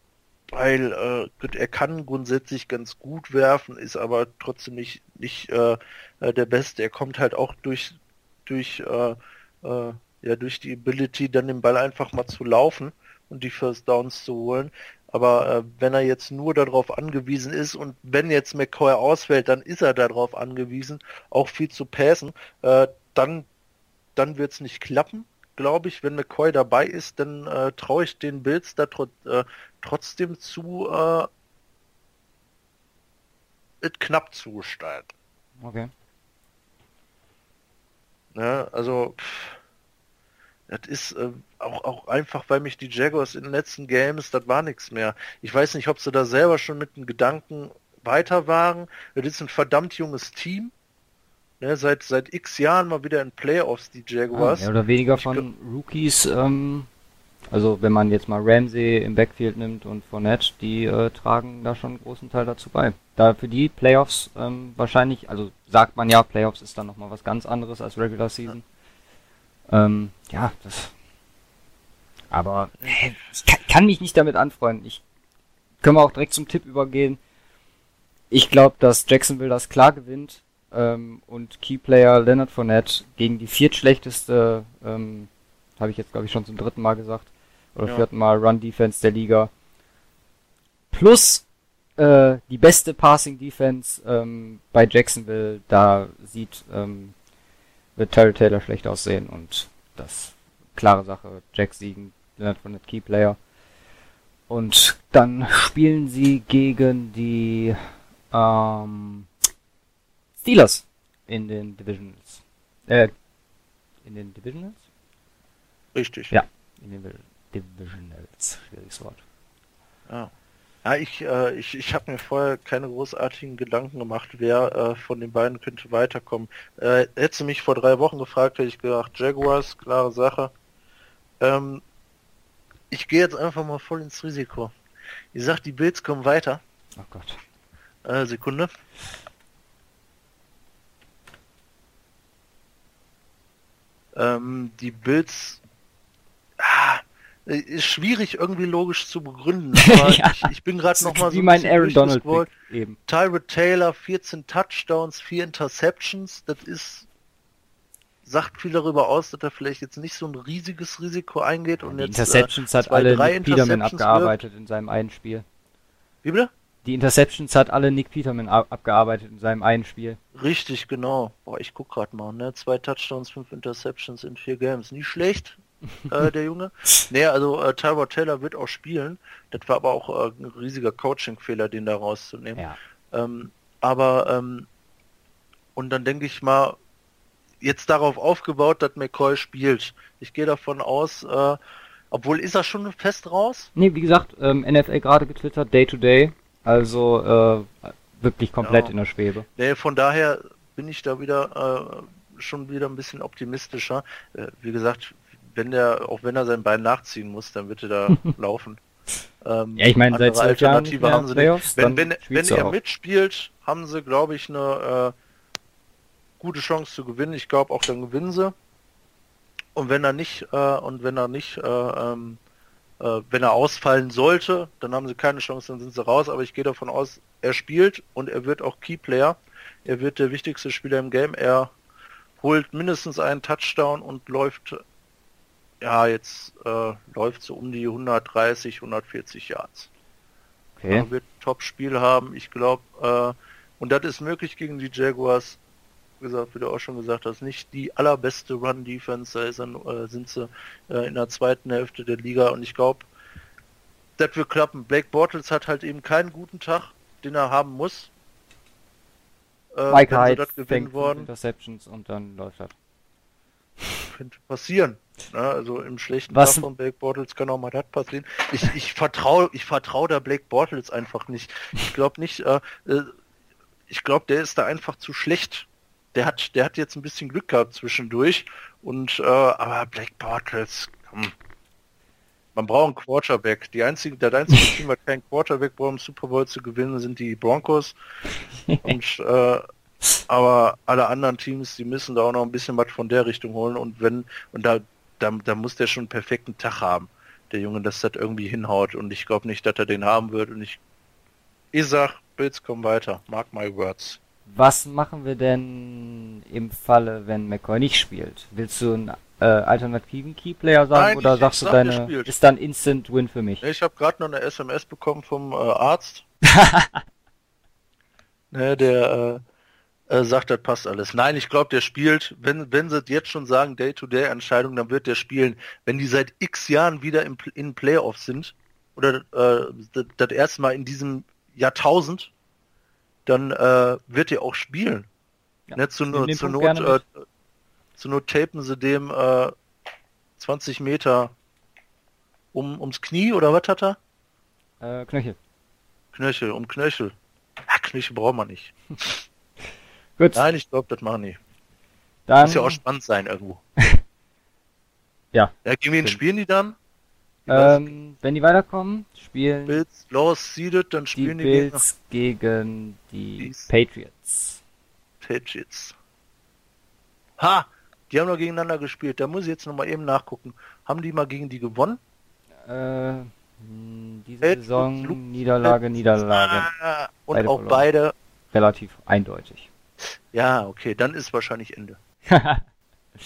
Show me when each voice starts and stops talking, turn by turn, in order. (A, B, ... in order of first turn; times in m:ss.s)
0:00.5-0:23.5 A
0:24.2-0:31.3 A
0:33.8-0:35.1 A
0:35.6-0:35.9 B
0:38.3-0:39.6 A
0:40.7-0:50.7 A
0:51.6-0:55.4 A
0:54.3-0:56.9 B
0:57.5-1:08.6 B
1:09.7-1:10.9 B
1:12.3-1:15.0 B
1:12.8-1:13.3 A
1:15.8-1:17.2 B
1:18.3-1:29.5 B
1:30.9-1:31.4 B
1:32.0-1:37.1 B
1:38.0-1:43.4 B
1:44.5-1:47.8 B
1:48.3-1:49.3 B
1:50.4-1:53.1 B
1:54.0-1:54.8 B
1:55.9-1:56.3 A
1:56.3-1:59.2 B
2:00.8-2:10.5 A
2:11.4-2:11.8 A
2:12.9-2:14.7 A
2:15.3-2:16.6 A
2:17.0-2:17.4 B
2:18.0-2:18.7 A
2:24.1-2:25.6 A
2:26.6-2:32.5 A
2:29.8-2:33.0 B
2:33.1-2:37.1 A
2:38.2-2:44.4 A
2:41.8-2:45.4 B
2:46.2-2:46.5 A
2:46.8-2:50.2 B
2:50.3-3:02.6 A
3:03.1-3:04.7 A
3:05.8-3:06.8 A
3:07.6-3:11.6 A
3:12.1-3:13.7 A
3:13.8-3:19.4 B
3:18.6-3:18.9 A
3:19.6-3:28.8 A
3:29.4-3:35.1 A
3:29.8-3:32.8 B
3:36.4-3:38.5 A
3:39.8-3:42.4 A
3:43.0-3:51.7 A
3:52.4-3:54.8 A
3:55.8-3:59.9 A
4:00.8-4:01.1 B
4:00.9-4:05.6 A
4:06.2-4:13.1 A
4:14.2-4:18.1 A
4:19.7-4:21.3 A
4:19.9-4:22.7 B
4:24.1-4:33.1 A
4:26.3-4:26.6 B
4:33.9-4:41.3 A
4:42.5-4:47.9 A
4:44.5-4:44.8 B
4:48.7-4:48.9 B
4:48.8-4:49.6 A
4:50.3-5:00.8 A
5:01.7-5:04.2 A
5:04.5-5:13.6 B
5:10.9-5:12.3 A
5:13.6-5:16.2 A
5:16.4-5:17.0 B
5:18.5-5:19.4 A
5:20.1-5:32.3 A
5:33.2-5:35.1 A
5:35.7-5:37.0 B
5:35.8-5:37.1 A
5:38.0-5:39.5 A
5:40.4-5:41.3 A
5:42.5-5:44.0 A
5:44.8-5:45.4 B
5:46.1-5:47.1 A
5:47.7-5:49.2 A
5:50.2-5:50.4 B
5:50.4-5:51.4 A
5:52.3-5:52.8 B
5:52.4-5:53.6 A
5:55.3-5:56.2 B
5:55.6-5:56.8 A
5:57.5-5:57.9 A
5:57.5-5:59.8 B
5:59.7-6:01.8 A
6:01.1-6:04.6 B
6:03.4-6:03.7 A
6:05.2-6:06.0 A
6:07.4-6:12.0 A
6:12.7-6:16.7 B
6:14.4-6:18.1 A
6:17.3-6:17.8 B
6:18.5-6:19.7 B
6:20.3-6:22.0 A
6:22.3-6:22.6 B